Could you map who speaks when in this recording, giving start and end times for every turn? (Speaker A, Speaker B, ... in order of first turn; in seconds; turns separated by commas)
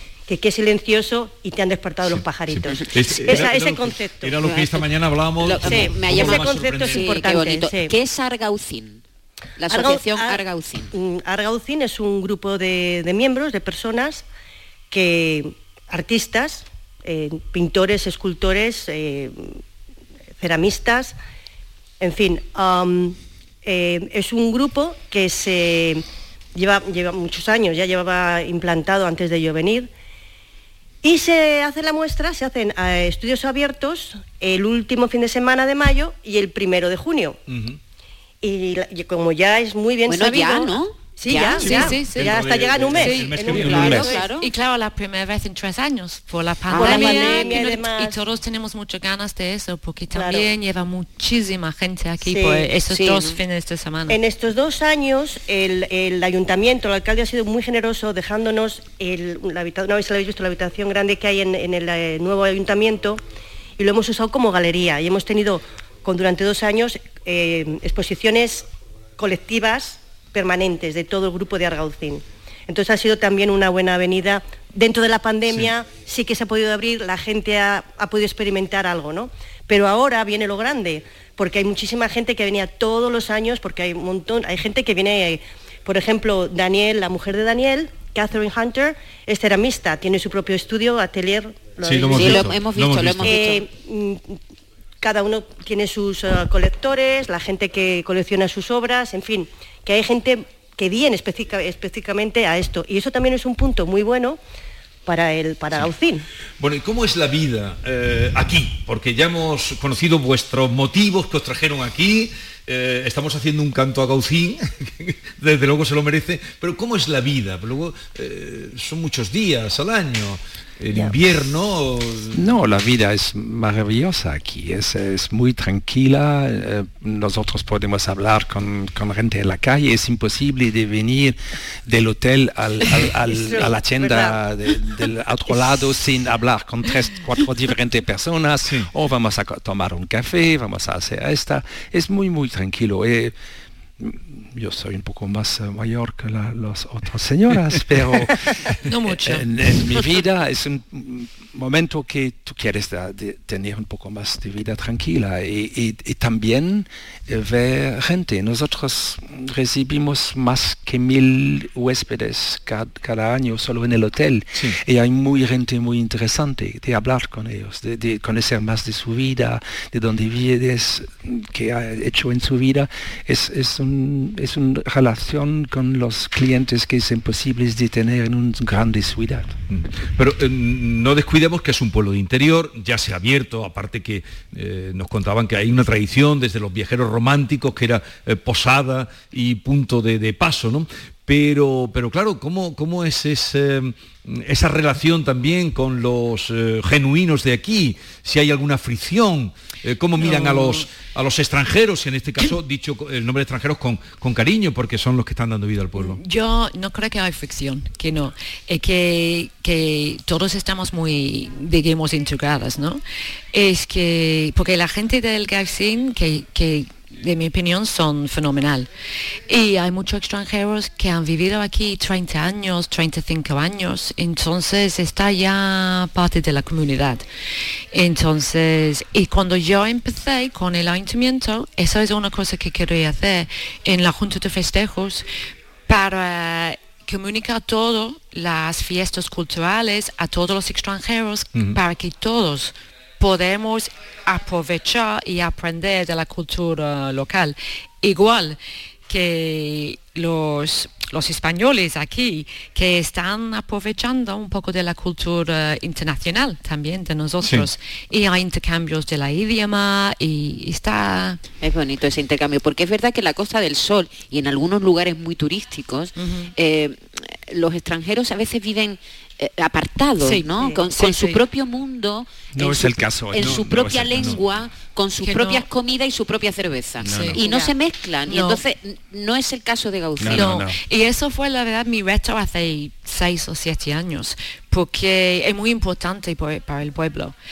Speaker A: 0.3-4.4, Speaker B: 2.0-7.2, Speaker C: 4.4-4.9, Speaker C: 5.4-9.0, Speaker A: 5.6-7.9, Speaker C: 9.6-10.9, Speaker A: 9.7-10.4, Speaker A: 10.9-14.2, Speaker A: 14.9-19.6, Speaker A: 20.4-21.1, Speaker A: 22.0-29.9, Speaker A: 31.0-37.4, Speaker B: 37.5-37.8, Speaker A: 38.4-44.3, Speaker C: 40.0-41.9, Speaker D: 41.6-42.4, Speaker B: 41.6-44.2, Speaker D: 43.0-54.2, Speaker C: 43.4-44.5, Speaker A: 46.7-48.2, Speaker C: 46.8-47.2, Speaker A: 50.1-50.5, Speaker A: 52.2-52.7, Speaker C: 52.9-53.4, Speaker A: 54.1-63.2, Speaker A: 63.8-68.7, Speaker A: 69.2-92.6, Speaker B: 91.8-93.4, Speaker C: 92.1-93.7, Speaker A: 93.2-94.4, Speaker A: 95.0-104.4, Speaker A: 105.0-106.2, Speaker B: 106.6-122.5, Speaker E: 122.3-143.3, Speaker A: 133.2-134.4, Speaker E: 144.0-179.6, Speaker D: 148.9-149.5, Speaker B: 179.7-206.2, Speaker D: 200.2-200.9, Speaker D: 205.9-213.0, Speaker D: 213.5-218.9, Speaker D: 219.5-227.2, Speaker D: 227.9-235.3, Speaker D: 235.9-261.4, Speaker C: 261.6-280.6, Speaker D: 266.1-266.5, Speaker D: 270.2-271.4, Speaker E: 272.5-274.4, Speaker D: 275.2-275.6, Speaker E: 277.0-277.4, Speaker D: 277.1-277.4, Speaker A: 277.4-277.7, Speaker D: 278.3-278.6, Speaker E: 280.2-280.8, Speaker D: 280.2-287.3